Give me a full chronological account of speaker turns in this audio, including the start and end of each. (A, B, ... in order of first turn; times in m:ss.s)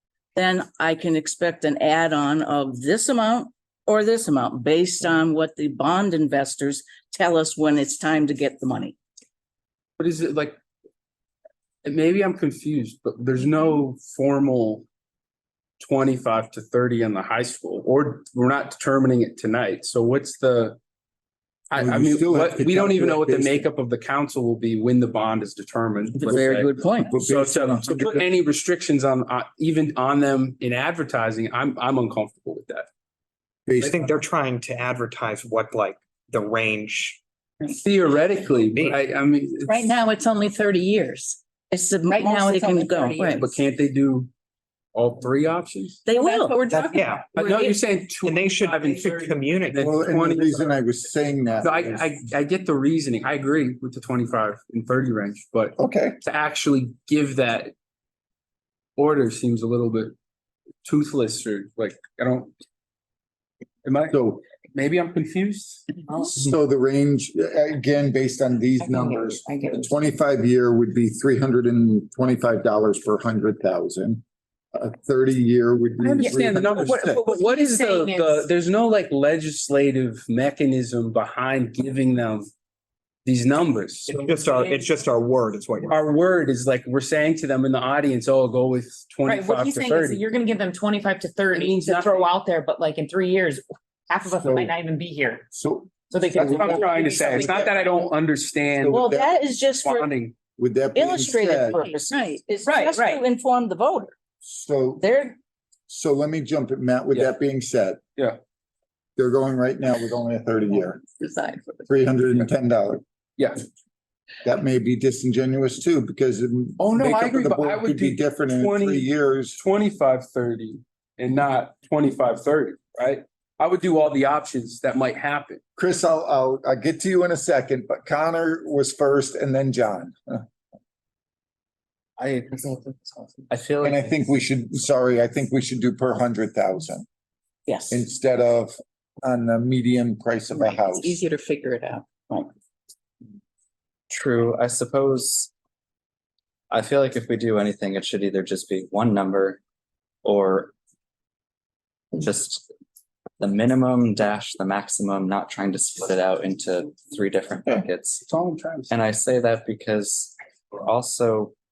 0:00.3-0:09.0 A
0:10.0-0:10.6 B
0:11.8-0:14.8 B
0:15.8-0:20.8 B
0:21.7-0:32.9 B
0:21.8-0:23.7 C
0:26.2-0:27.1 A
0:27.1-0:28.2 C
0:33.7-0:34.0 C
0:33.8-0:37.2 D
0:37.7-0:39.8 B
0:38.7-0:39.0 D
0:39.6-0:41.4 E
0:41.7-0:43.4 A
0:42.0-0:43.6 E
0:43.3-0:44.3 B
0:44.9-0:46.0 B
0:46.0-0:46.6 A
0:46.1-0:47.8 E
0:46.7-0:47.6 D
0:47.3-0:50.8 B
0:48.2-0:49.9 D
0:49.8-0:52.0 C
0:51.6-0:57.7 B
0:55.8-0:56.2 C
0:59.0-1:00.1 B
1:00.8-1:02.5 B
1:03.8-1:06.0 B
1:04.1-1:04.4 C
1:06.3-1:17.2 C
1:08.8-1:09.9 E
1:16.0-1:22.5 B
1:17.0-1:18.4 F
1:23.2-1:24.4 B
1:24.1-1:26.0 D
1:25.9-1:30.2 B
1:29.2-1:35.4 F
1:31.5-1:32.3 B
1:34.3-1:34.7 C
1:35.5-1:37.8 C
1:36.1-1:37.7 F
1:36.4-1:39.1 B
1:38.7-1:39.3 C
1:38.9-1:40.1 A
1:39.8-1:40.3 B
1:40.6-1:41.9 C
1:40.9-1:44.1 A
1:41.7-1:43.2 E
1:44.4-1:45.1 C
1:45.0-1:45.4 A
1:45.9-1:48.0 C
1:49.2-1:51.0 C
1:51.0-1:51.9 E
1:51.9-1:53.0 C
1:53.4-1:53.6 B
1:54.4-1:59.6 C
1:56.8-2:05.6 B
2:05.8-2:10.4 C
2:12.2-2:14.2 G
2:13.8-2:17.0 C
2:17.7-2:18.0 E
2:17.9-2:21.2 C
2:20.5-2:22.5 E
2:24.1-2:25.5 G
2:26.7-2:29.6 G
2:30.2-2:30.7 G
2:32.1-2:32.7 G
2:33.4-2:38.2 G
2:38.2-2:38.9 B
2:38.9-2:41.5 G